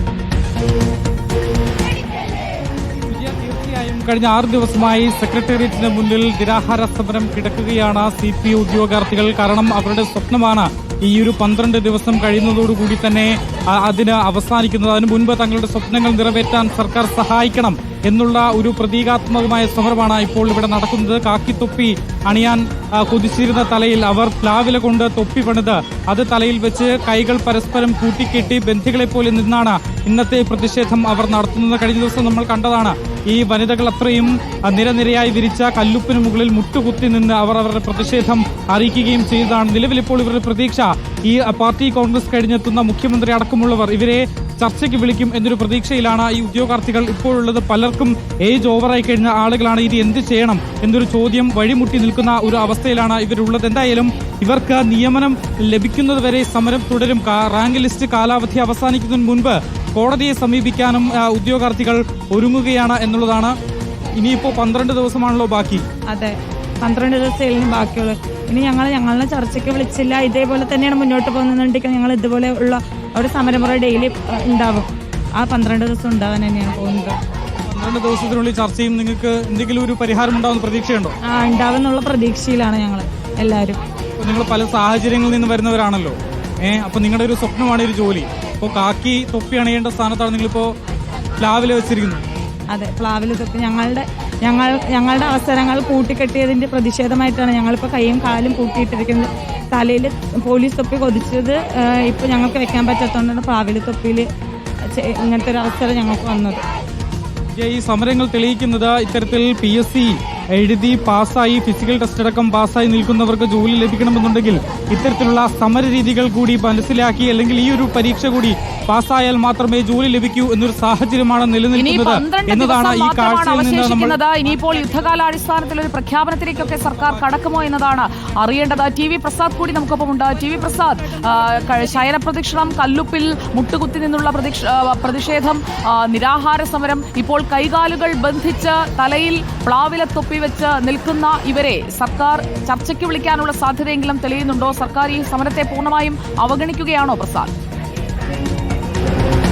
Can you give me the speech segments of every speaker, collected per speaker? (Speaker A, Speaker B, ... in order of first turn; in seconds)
Speaker A: 3.1-63.5, 64.2-65.8, 77.7-81.1, 84.2-90.7, 91.4-92.2, 107.5-124.2
Speaker B: 66.1-77.2, 81.3-83.8, 92.7-104.3, 104.9-106.6
Speaker C: 121.8-147.5